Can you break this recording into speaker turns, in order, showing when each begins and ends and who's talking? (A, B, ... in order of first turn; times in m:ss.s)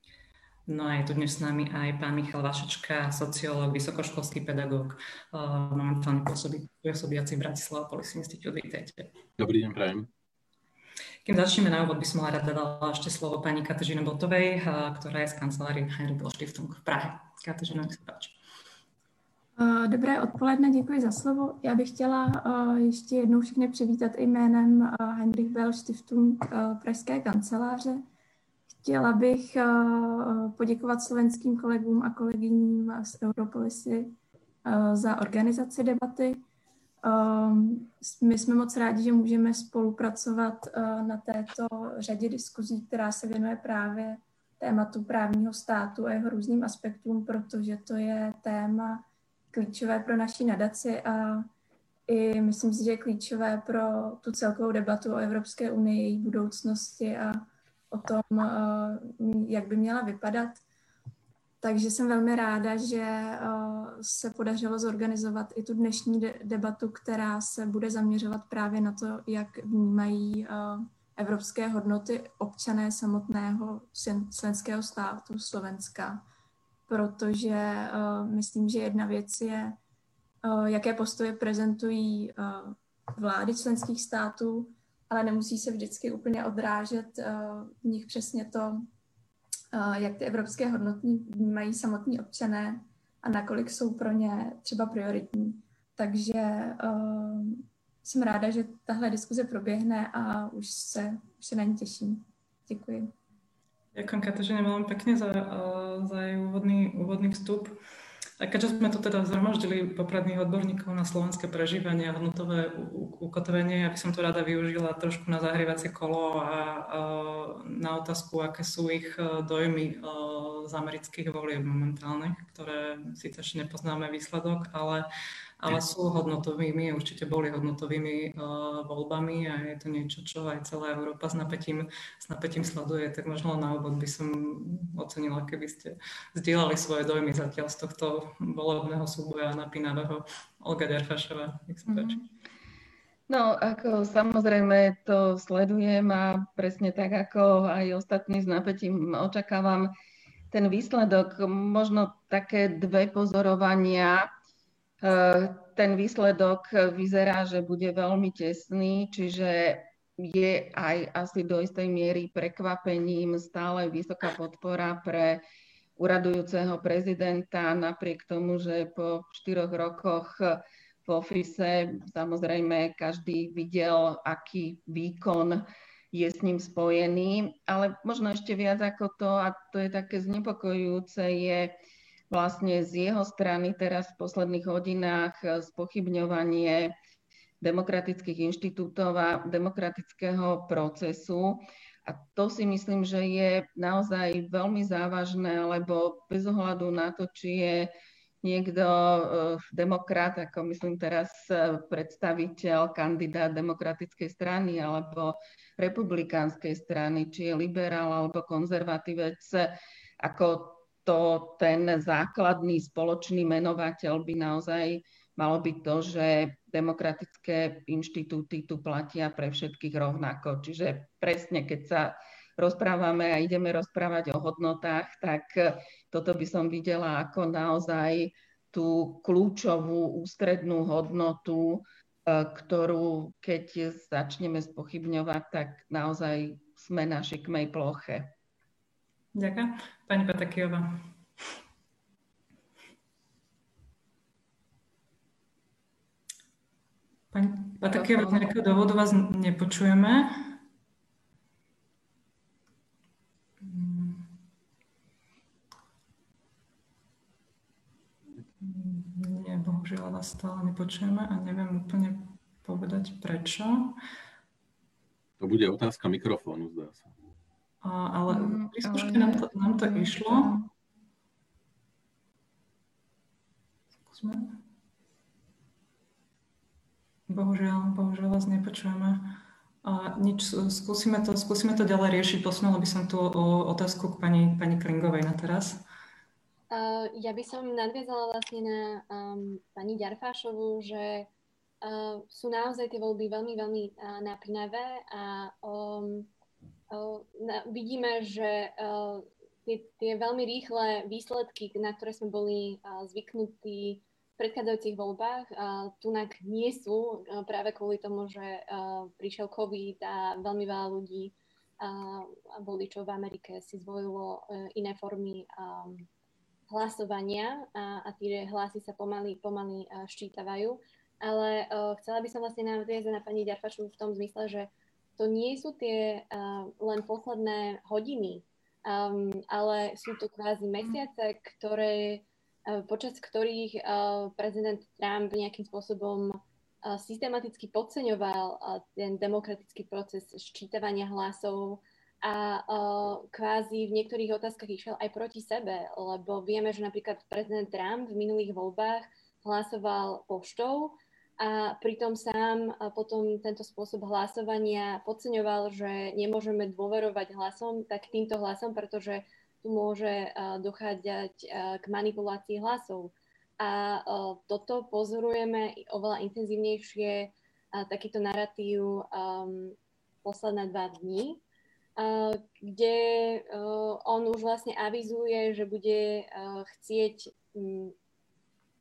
0:00.7-0:09.1 A
0:09.4-0:10.1 B
0:11.2-0:18.4 A
0:19.6-0:28.0 C
0:28.8-0:36.4 C
0:37.0-0:51.5 C
0:52.1-1:00.6 C
1:01.6-1:16.2 C
1:16.9-1:19.8 C
1:20.4-1:28.9 C
1:29.7-1:43.1 C
1:43.9-1:47.8 A
1:48.4-2:05.1 A
2:05.6-2:22.2 A
2:21.9-2:22.2 D
2:23.3-2:29.9 D
2:30.5-2:34.3 D
2:35.0-2:45.4 D
2:46.0-3:01.8 D
3:02.3-3:06.9 D
3:07.6-3:17.9 D
3:18.4-3:58.3 D
3:59.3-4:01.1 A
4:07.3-4:10.6 A
4:07.9-4:08.5 D
4:13.6-4:14.3 A
4:18.6-4:24.0 A
4:25.4-4:27.1 B
4:27.8-4:30.6 A
4:28.3-4:30.7 D
4:34.1-4:34.6 A
4:37.3-4:45.8 A
4:46.7-4:51.3 E
4:51.8-4:56.3 E
4:56.9-5:16.1 E
5:16.7-6:11.4 E
6:12.0-6:17.9 E